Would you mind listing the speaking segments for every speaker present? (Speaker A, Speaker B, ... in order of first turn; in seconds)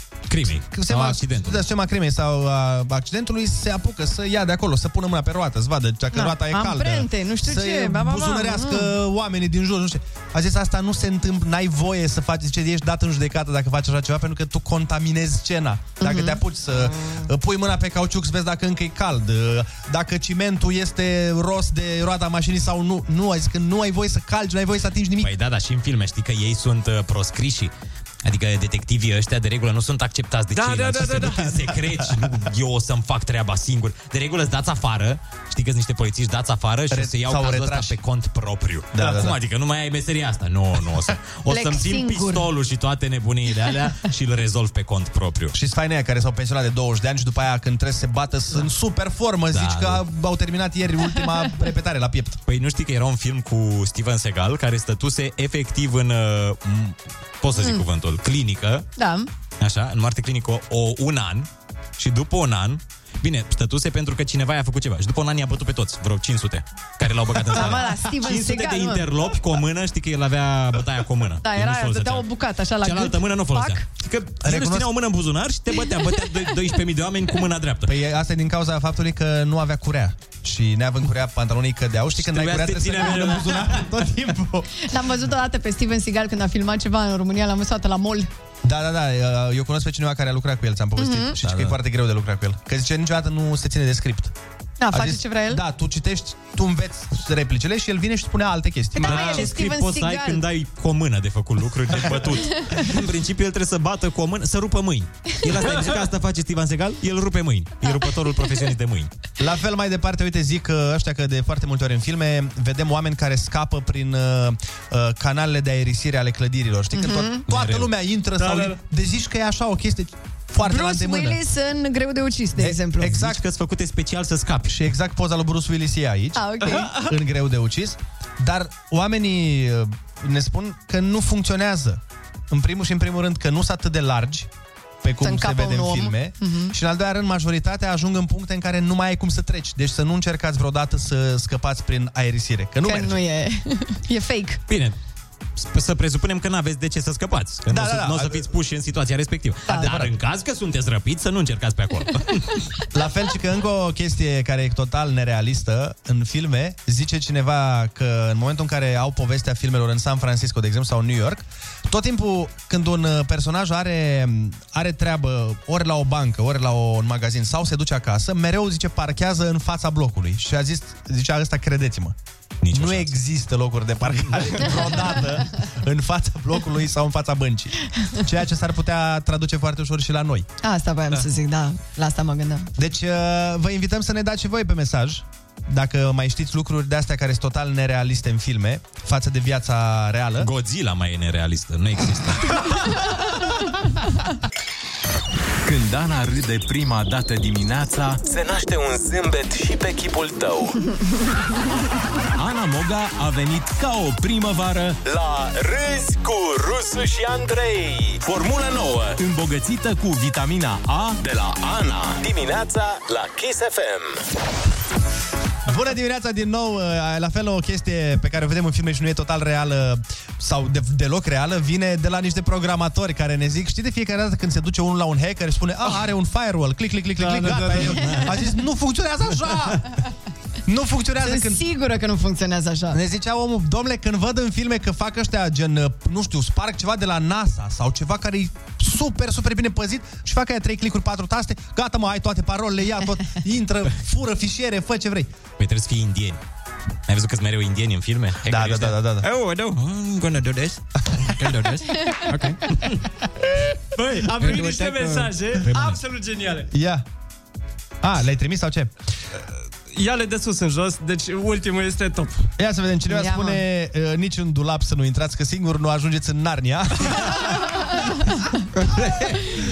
Speaker A: 0.3-1.6, 25.2-27.7, 28.2-45.5, 49.5-50.0, 52.5-58.9, 59.6-72.3, 72.8-77.9, 82.2-83.8, 91.4-91.8, 99.1-109.1, 117.5-117.9, 123.1-124.8, 144.7-145.0, 145.6-152.6, 172.6-173.1, 190.4-192.7, 227.3-228.4, 245.6-246.4, 247.1-252.9, 254.3-256.0
Speaker B: 0.7-25.3, 36.9-38.0, 38.9-39.4, 45.5-52.4, 74.4-74.9, 77.8-84.7, 88.6-94.3, 94.9-99.5, 109.4-121.4, 122.6-123.4, 124.7-134.5, 135.0-143.2, 147.7-148.5, 149.7-150.1, 152.9-172.2, 172.7-180.5, 182.8-190.5, 215.7-229.8, 230.7-231.6, 232.9-245.3, 248.5-249.3, 256.7-257.1, 258.0-258.9, 262.6-267.5
Speaker C: 6.1-8.9, 16.0-16.4, 41.5-42.5, 57.6-57.8, 59.0-59.3, 67.5-69.1, 71.4-73.8, 84.8-88.3, 91.0-91.3, 94.8-95.6, 99.0-100.4, 116.9-117.4, 120.6-123.1, 126.4-127.0, 135.2-136.8, 142.8-144.6, 149.7-149.9, 180.6-182.7, 231.2-233.0, 263.1-263.6
Speaker D: 30.5-31.6, 99.1-99.4, 118.4-118.8, 227.2-228.0, 254.0-256.7, 259.9-262.5
Speaker E: 195.6-198.2, 202.4-205.0, 208.2-208.6, 209.2-211.3
Speaker F: 198.2-200.8, 205.0-209.2, 211.2-214.2